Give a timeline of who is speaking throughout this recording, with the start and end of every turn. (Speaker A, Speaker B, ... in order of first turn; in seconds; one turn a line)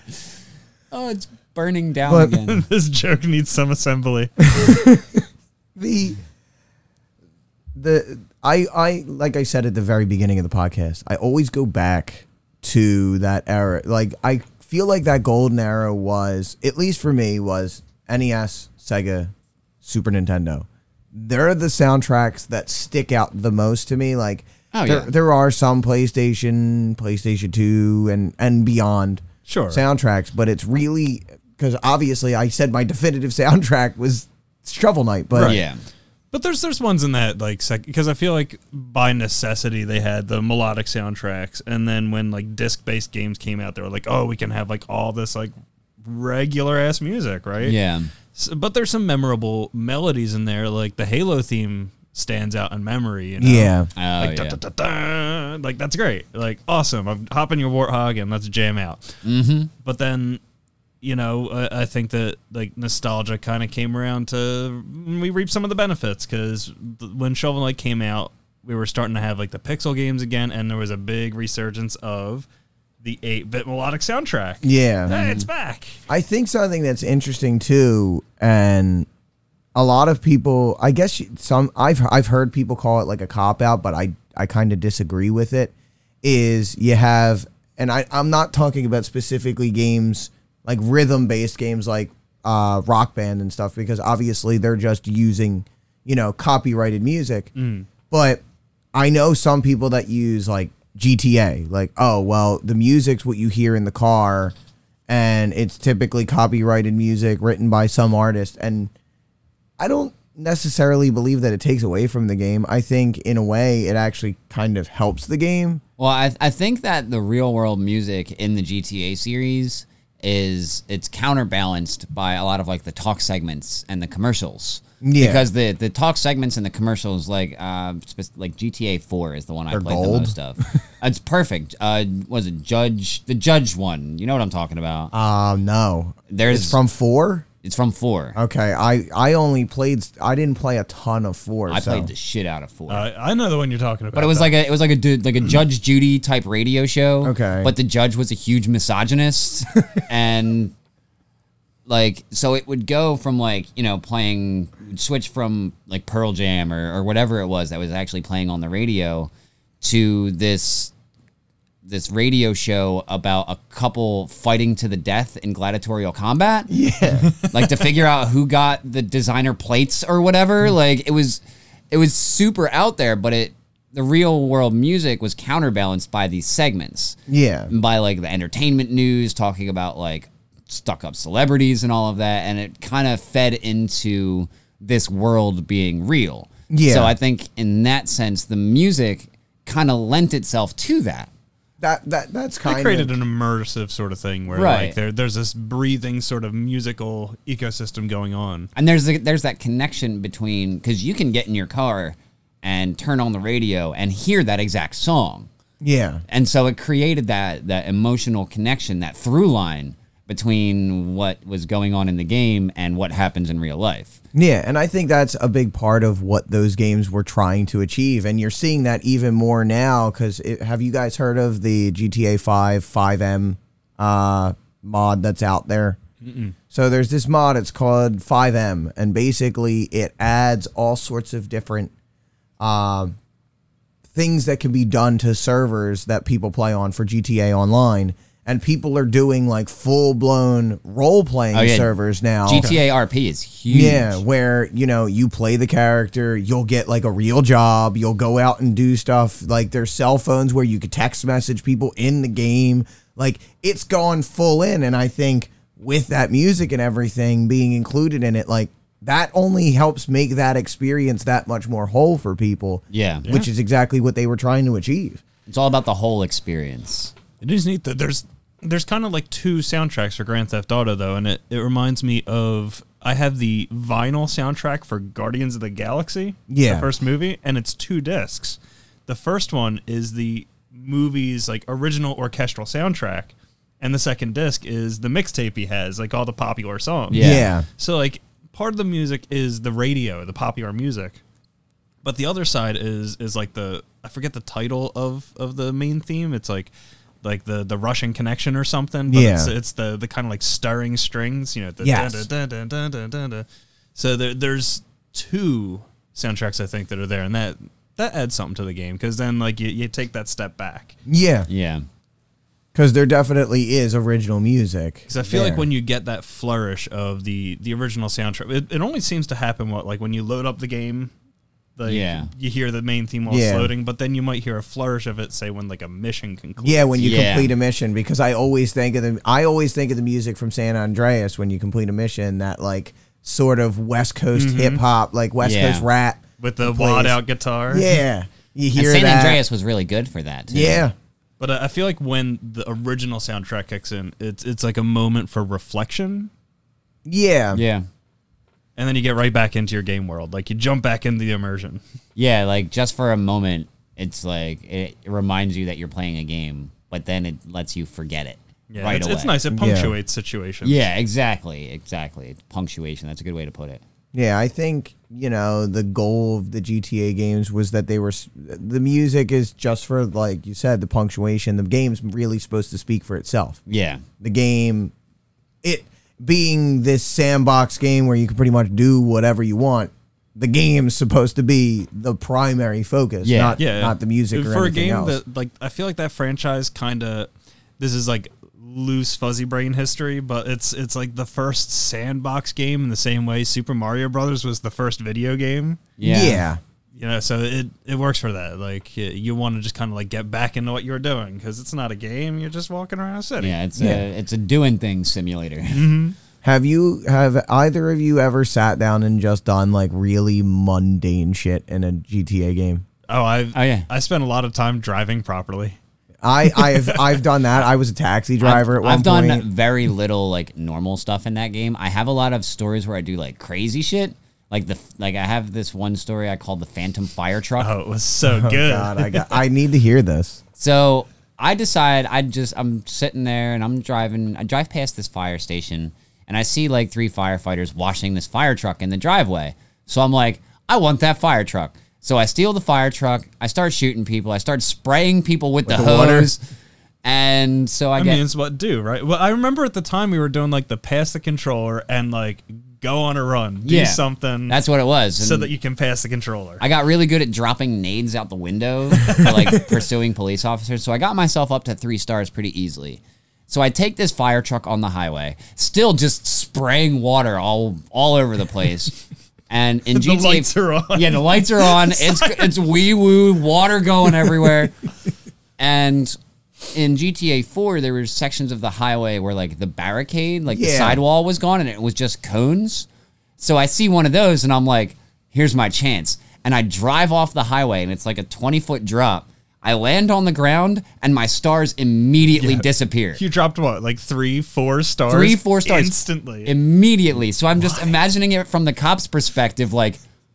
Speaker A: 0.9-2.6
Speaker B: 2.3-4.5
Speaker C: 4.5-5.2
Speaker C: 5.8-6.2
Speaker C: 7.8-19.3
Speaker C: 19.8-35.6
Speaker A: 24.7-25.1
Speaker B: 29.5-29.8
Speaker B: 35.3-35.6
Speaker A: 35.4-35.8
Speaker B: 36.3-45.5
Speaker B: 46.0-47.8
Speaker A: 47.6-48.1
Speaker B: 48.4-59.1
Speaker C: 53.4-53.9
Speaker A: 54.0-54.6
Speaker A: 59.2-59.7
Speaker B: 59.8-60.4
Speaker B: 61.0-72.5
Speaker B: 73.0-76.0
Speaker C: 74.6-75.1
Speaker A: 75.1-75.5
Speaker C: 76.1-79.1
Speaker C: 79.8-85.7
Speaker C: 86.2-97.5
Speaker B: 97.6-97.9
Speaker C: 98.1-98.4
Speaker C: 98.9-104.5
Speaker C: 105.1-108.9
Speaker C: 109.8-115.8
Speaker A: 116.0-135.1
Speaker C: 125.0-125.5
Speaker C: 129.7-130.8
Speaker C: 135.1-137.5
Speaker A: 136.3-136.8
Speaker A: 137.6-138.4
Speaker C: 138.4-142.1
Speaker A: 141.7-143.1
Speaker B: 142.9-144.6
Speaker A: 144.2-150.7
Speaker C: 147.2-147.7
Speaker A: 151.9-159.3
Speaker A: 159.8-160.9
Speaker A: 161.8-166.8
Speaker C: 166.7-167.3
Speaker B: 167.2-167.5
Speaker A: 167.4-177.2
Speaker C: 177.3-177.7
Speaker A: 177.7-191.3
Speaker C: 186.7-187.1
Speaker C: 191.8-193.2
Speaker B: 192.7-198.7
Speaker A: 194.5-195.0
Speaker A: 198.8-205.5
Speaker C: 205.8-206.2
Speaker A: 206.3-214.2
Speaker C: 214.3-226.0
Speaker B: 226.2-226.6
Speaker C: 226.7-231.9
Speaker C: 232.6-233.2
Speaker C: 234.1-242.7
Speaker A: 241.5-241.9
Speaker A: 242.5-244.2
Speaker B: 242.5-242.8
Speaker C: 243.7-265.2
Speaker A: 262.9-263.3
Speaker A: 265.5-267.1
Speaker B: 267.4-291.2
Speaker C: 276.5-276.9
Speaker A: 287.1-287.5
Speaker C: 287.1-287.7
Speaker B: 292.0-296.7
Speaker B: 297.2-311.0
Speaker C: 299.1-299.5
Speaker C: 301.8-302.3
Speaker C: 311.1-311.5
Speaker A: 311.5-311.9
Speaker C: 312.7-315.7
Speaker B: 315.1-321.1
Speaker B: 321.8-327.0
Speaker A: 321.9-322.3
Speaker C: 323.3-323.7
Speaker C: 326.6-337.2
Speaker A: 327.0-327.5
Speaker B: 334.3-334.8
Speaker A: 335.4-335.9
Speaker B: 336.4-337.9
Speaker C: 337.7-339.4
Speaker A: 338.8-340.9
Speaker C: 340.5-340.9
Speaker B: 341.4-346.3
Speaker C: 347.1-347.6
Speaker A: 347.5-347.9
Speaker B: 348.8-351.8
Speaker A: 352.2-359.4
Speaker B: 358.7-360.9
Speaker C: 359.5-360.0
Speaker A: 360.6-363.8
Speaker C: 364.1-373.6
Speaker A: 373.7-374.0
Speaker C: 374.2-374.9
Speaker C: 375.6-385.2
Speaker A: 383.2-383.6
Speaker B: 383.6-395.8
Speaker A: 396.0-396.4
Speaker C: 396.0-396.6
Speaker B: 396.9-403.6
Speaker A: 403.4-405.9
Speaker C: 403.8-404.1
Speaker B: 405.7-406.1
Speaker C: 406.4-412.8
Speaker B: 413.1-415.8
Speaker A: 413.5-413.9
Speaker C: 416.2-419.4
Speaker B: 416.6-417.1
Speaker A: 418.4-427.7
Speaker B: 427.6-429.4
Speaker C: 428.3-430.4
Speaker A: 430.6-446.4
Speaker C: 445.7-446.3
Speaker A: 447.0-448.2
Speaker B: 448.0-454.6
Speaker A: 453.6-455.5
Speaker B: 455.2-456.6
Speaker A: 456.6-469.0
Speaker A: 469.5-474.7
Speaker B: 469.9-472.6
Speaker A: 475.6-476.2
Speaker A: 476.7-482.9
Speaker C: 480.5-481.0
Speaker A: 483.4-493.2
Speaker B: 492.3-496.5
Speaker A: 495.1-500.0